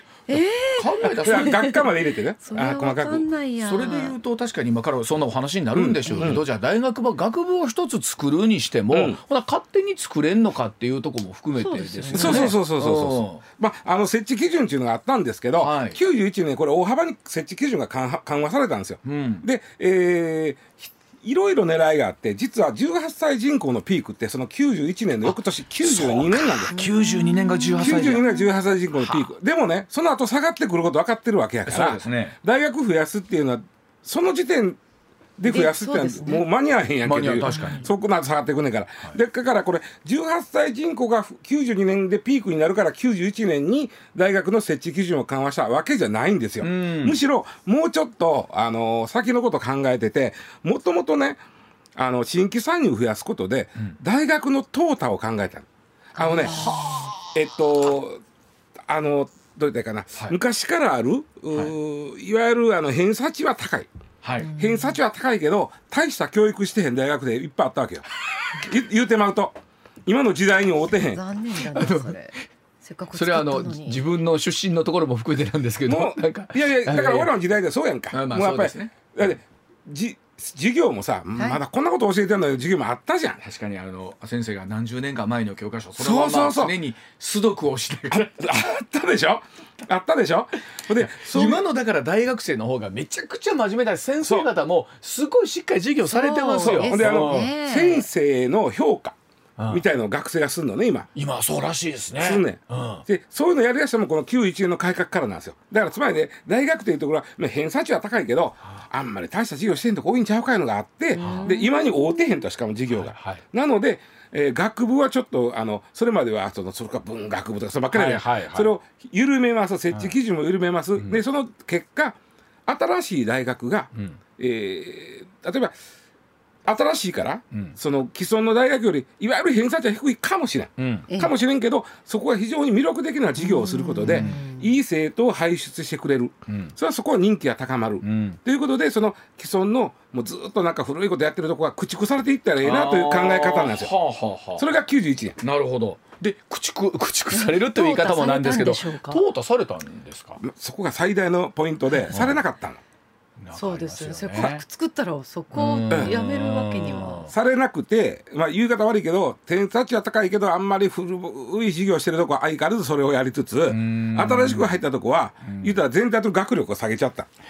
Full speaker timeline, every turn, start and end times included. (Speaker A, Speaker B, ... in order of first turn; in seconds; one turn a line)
Speaker A: 0.3-1.8
Speaker B: 0.7-1.7
Speaker C: 1.1-3.3
Speaker A: 2.4-4.1
Speaker B: 3.6-13.4
Speaker C: 5.8-6.4
Speaker A: 6.0-6.3
Speaker C: 8.9-9.2
Speaker A: 11.6-12.5
Speaker C: 12.1-26.7
Speaker B: 15.6-16.0
Speaker B: 19.0-19.4
Speaker B: 25.3-28.2
Speaker A: 26.7-28.5
Speaker C: 27.8-34.8
Speaker B: 31.6-32.4
Speaker C: 35.4-51.4
Speaker A: 35.5-36.5
Speaker B: 37.0-37.9
Speaker A: 37.5-37.9
Speaker B: 46.6-47.2
Speaker C: 52.0-56.6
Speaker A: 56.1-57.1
Speaker B: 56.3-57.3
Speaker C: 57.3-58.2
Speaker C: 58.9-63.9
Speaker B: 64.2-64.5
Speaker A: 64.4-65.0
Speaker C: 64.6-71.2
Speaker A: 71.0-74.0
Speaker B: 71.6-72.1
Speaker B: 73.1-77.3
Speaker C: 75.9-83.4
Speaker B: 78.1-78.9
Speaker A: 81.3-81.6
Speaker B: 83.4-88.3
Speaker C: 86.0-86.7
Speaker C: 88.1-91.6
Speaker B: 90.9-97.5
Speaker C: 94.2-94.5
Speaker A: 96.0-98.1
Speaker C: 96.6-99.2
Speaker B: 99.6-99.8
Speaker C: 99.7-101.1
Speaker B: 101.1-103.0
Speaker C: 102.2-125.7
Speaker B: 111.1-111.5
Speaker A: 111.1-111.7
Speaker B: 112.9-113.4
Speaker B: 117.9-118.7
Speaker C: 126.6-143.9
Speaker B: 130.8-131.1
Speaker A: 133.4-134.7
Speaker B: 134.0-134.4
Speaker B: 136.5-136.7
Speaker B: 138.0-138.4
Speaker B: 142.6-144.7
Speaker C: 144.6-145.4
Speaker B: 145.4-150.4
Speaker A: 147.3-149.2
Speaker C: 150.4-152.8
Speaker B: 152.1-152.4
Speaker B: 153.4-154.6
Speaker A: 153.6-157.3
Speaker B: 155.5-157.3
Speaker C: 157.3-167.3
Speaker B: 163.7-164.8
Speaker B: 165.4-165.8